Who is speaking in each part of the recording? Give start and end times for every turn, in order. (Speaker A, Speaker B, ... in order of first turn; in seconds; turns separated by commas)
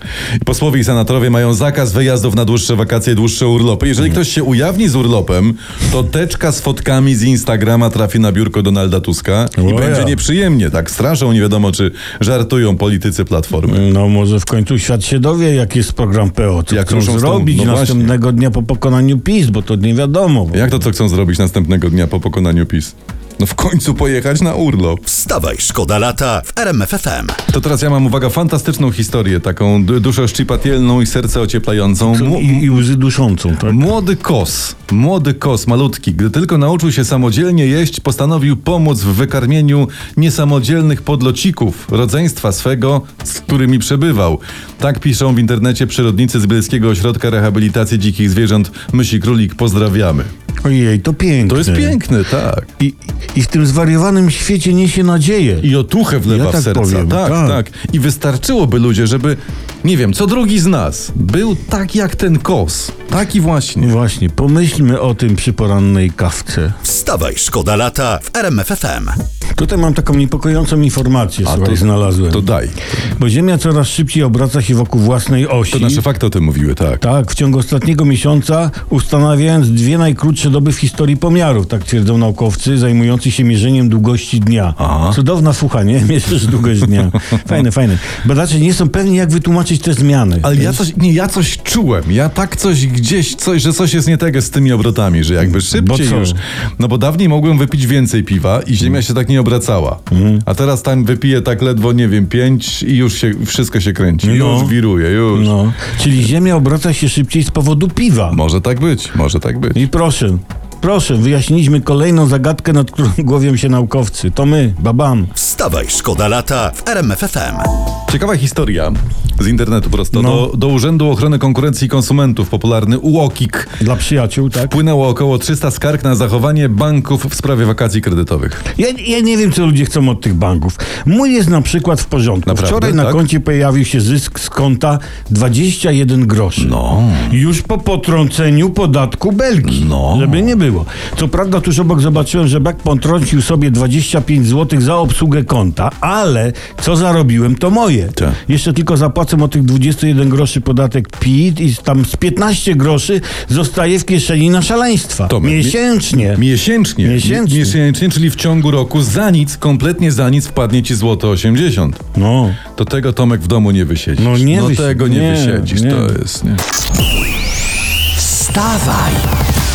Speaker A: 0.4-13.8, Speaker B: 9.6-10.2, Speaker B: 13.7-20.7, Speaker A: 16.7-18.1, Speaker A: 20.5-25.1, Speaker C: 25.1-27.4, Speaker A: 27.5-32.8, Speaker B: 32.0-33.9, Speaker A: 33.6-50.3, Speaker B: 50.6-52.0, Speaker A: 51.5-52.7, Speaker B: 52.8-55.7, Speaker A: 55.6-64.0, Speaker B: 56.2-57.6, Speaker B: 63.8-66.8, Speaker C: 66.8-69.2, Speaker B: 69.5-72.5, Speaker A: 71.4-73.0, Speaker B: 73.1-76.0, Speaker A: 75.7-77.0, Speaker B: 77.0-90.8, Speaker A: 84.8-85.2, Speaker A: 90.4-105.5, Speaker B: 95.6-96.4, Speaker B: 100.1-100.4, Speaker B: 104.2-104.8, Speaker B: 105.3-108.4, Speaker A: 108.3-109.8, Speaker B: 109.7-115.3, Speaker C: 115.3-117.7, Speaker A: 118.1-123.7, Speaker B: 120.1-120.5, Speaker B: 123.8-124.8, Speaker A: 124.7-128.6, Speaker B: 128.8-136.7, Speaker A: 132.4-133.2, Speaker A: 136.6-137.4, Speaker B: 137.3-156.4, Speaker A: 139.6-140.6, Speaker A: 155.3-162.0, Speaker B: 157.0-157.8, Speaker B: 162.1-162.6, Speaker A: 162.7-166.6, Speaker B: 164.2-166.2, Speaker C: 168.1-169.3